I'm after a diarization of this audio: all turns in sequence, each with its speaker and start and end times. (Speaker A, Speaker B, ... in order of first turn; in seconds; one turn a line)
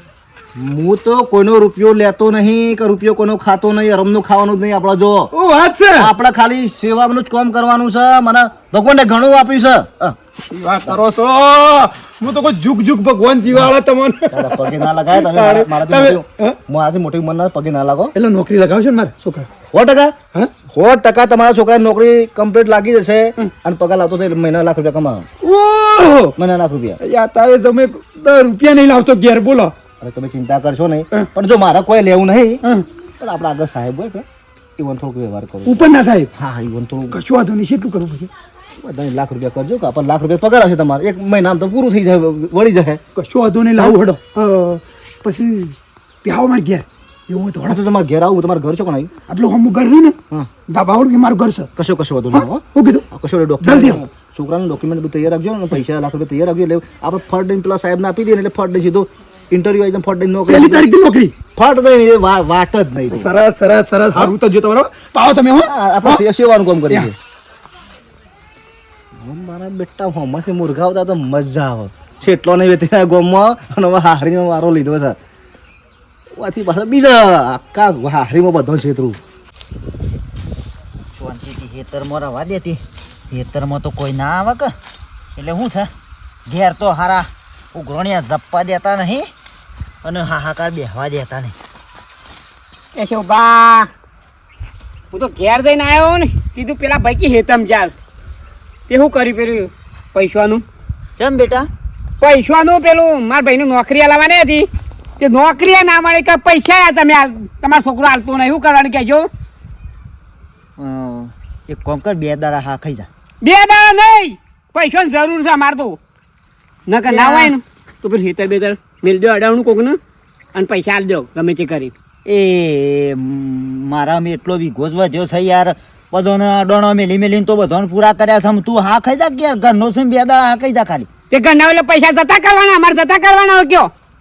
Speaker A: 0.6-5.3
Speaker B: 5.3-6.1
Speaker A: 6.0-10.2
Speaker B: 10.4-16.6
Speaker A: 14.3-18.1
Speaker B: 18.1-19.5
Speaker A: 19.7-20.2
Speaker A: 20.7-25.3
Speaker B: 25.4-26.3
Speaker A: 26.4-27.0
Speaker B: 27.0-29.7
Speaker A: 30.0-32.6
Speaker A: 33.2-34.2
Speaker A: 34.8-35.8
Speaker B: 35.6-36.3
Speaker A: 36.4-37.2
Speaker B: 37.1-38.3
Speaker A: 38.8-43.0
Speaker B: 43.1-47.8
Speaker A: 47.7-49.1
Speaker B: 49.3-50.1
Speaker B: 50.7-51.7
Speaker A: 51.8-60.9
Speaker B: 52.3-53.0
Speaker B: 53.6-54.0
Speaker B: 60.5-61.3
Speaker A: 61.5-63.3
Speaker B: 63.1-66.2
Speaker A: 65.7-67.1
Speaker A: 69.2-75.2
Speaker A: 76.3-79.2
Speaker C: 81.1-84.7
Speaker C: 85.3-85.9
Speaker C: 86.5-89.3
Speaker C: 90.0-91.5
Speaker D: 92.9-93.9
Speaker D: 95.1-98.0
Speaker D: 98.9-100.6
Speaker C: 101.2-101.7
Speaker D: 102.2-104.7
Speaker D: 105.2-109.3
Speaker C: 110.8-113.1
Speaker D: 113.4-116.0
Speaker D: 116.9-120.0
Speaker C: 117.1-117.5
Speaker D: 120.5-121.9
Speaker C: 122.2-131.1
Speaker D: 131.3-133.9